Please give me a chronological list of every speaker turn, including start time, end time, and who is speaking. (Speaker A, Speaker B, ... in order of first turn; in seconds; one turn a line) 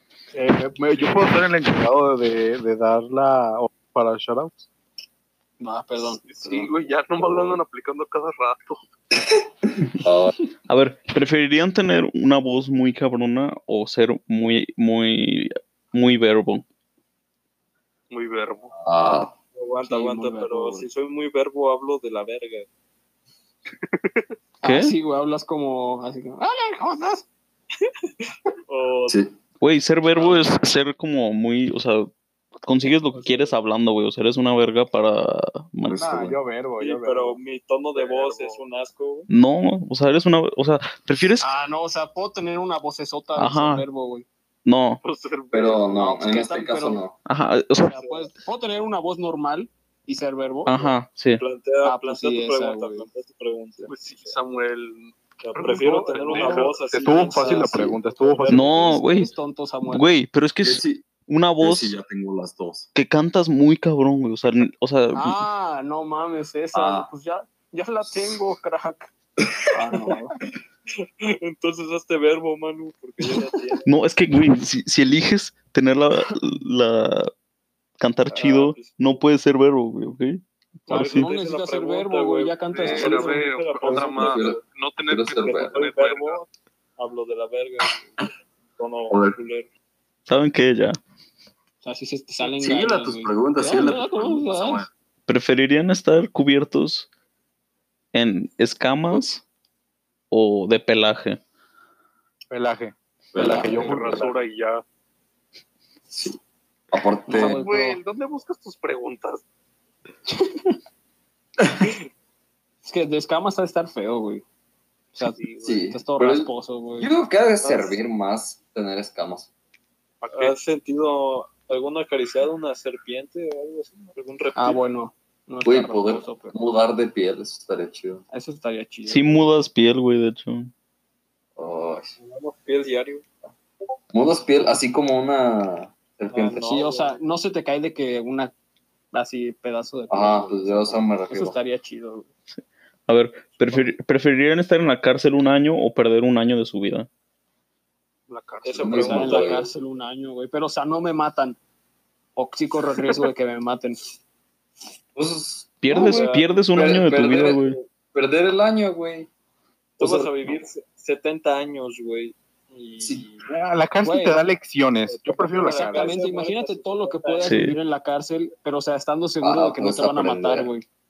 Speaker A: 0.3-4.7
Speaker B: 5.6-6.2
Speaker C: 6.2-8.8
Speaker D: 6.4-7.6
Speaker D: 9.3-10.3
Speaker E: 10.7-16.6
Speaker C: 18.1-18.7
Speaker D: 18.8-19.3
Speaker F: 19.6-22.7
Speaker B: 19.8-20.9
Speaker C: 23.9-24.2
Speaker B: 24.6-27.3
Speaker E: 24.6-25.0
Speaker F: 28.7-29.2
Speaker D: 29.1-29.3
Speaker E: 29.6-32.1
Speaker E: 32.6-36.2
Speaker D: 35.8-36.4
Speaker A: 35.9-37.4
Speaker F: 36.8-39.3
Speaker C: 37.9-38.6
Speaker E: 39.3-41.5
Speaker B: 41.4-44.3
Speaker E: 43.4-43.9
Speaker E: 44.7-45.0
Speaker C: 45.0-46.5
Speaker D: 45.5-47.2
Speaker B: 46.0-47.0
Speaker E: 47.3-48.1
Speaker B: 47.8-50.7
Speaker E: 50.7-51.4
Speaker F: 51.4-54.3
Speaker B: 51.8-53.1
Speaker C: 53.9-57.3
Speaker F: 55.4-58.8
Speaker B: 56.3-60.1
Speaker A: 56.9-58.8
Speaker E: 58.5-59.3
Speaker E: 59.9-62.0
Speaker D: 60.6-61.1
Speaker D: 61.6-62.9
Speaker E: 63.0-65.4
Speaker B: 65.1-69.1
Speaker D: 66.7-67.1
Speaker B: 69.7-70.3
Speaker F: 71.0-73.9
Speaker E: 73.9-77.3
Speaker E: 78.0-81.3
Speaker F: 78.3-79.1
Speaker B: 80.9-84.2
Speaker F: 80.9-84.6
Speaker C: 82.8-86.5
Speaker D: 84.2-85.8
Speaker F: 85.4-86.5
Speaker F: 87.0-88.2
Speaker F: 88.8-89.7
Speaker D: 89.1-89.4
Speaker E: 90.3-91.0
Speaker B: 91.8-94.8
Speaker D: 92.4-94.9
Speaker E: 95.3-97.1
Speaker E: 98.1-99.4
Speaker E: 100.3-101.4
Speaker A: 102.5-104.4
Speaker D: 103.3-104.0
Speaker B: 103.4-103.7
Speaker C: 103.6-104.8
Speaker D: 106.9-107.6
Speaker B: 107.3-108.0
Speaker C: 107.3-109.4
Speaker B: 112.8-114.5
Speaker B: 115.1-115.4
Speaker C: 115.2-115.9
Speaker D: 115.6-119.5
Speaker B: 115.9-117.1
Speaker C: 120.2-120.6
Speaker F: 120.3-124.8
Speaker B: 124.6-126.6
Speaker D: 125.6-128.2
Speaker B: 128.3-129.3
Speaker E: 129.1-130.7
Speaker D: 131.6-132.1
Speaker F: 132.2-133.2
Speaker D: 134.1-136.6
Speaker F: 136.3-137.2
Speaker B: 136.6-138.5
Speaker B: 139.1-142.3
Speaker D: 140.1-141.6
Speaker E: 143.1-147.1
Speaker C: 148.3-149.4
Speaker F: 148.6-149.6
Speaker D: 148.8-149.7
Speaker B: 148.9-151.6
Speaker B: 152.4-154.0
Speaker D: 155.2-159.3
Speaker E: 155.8-157.8
Speaker F: 155.9-156.5
Speaker D: 160.0-160.3
Speaker F: 160.0-163.5
Speaker D: 163.0-163.3
Speaker A: 163.5-166.1
Speaker B: 164.0-164.4
Speaker F: 165.1-167.6
Speaker B: 165.6-170.8
Speaker E: 167.4-167.8
Speaker D: 169.4-170.7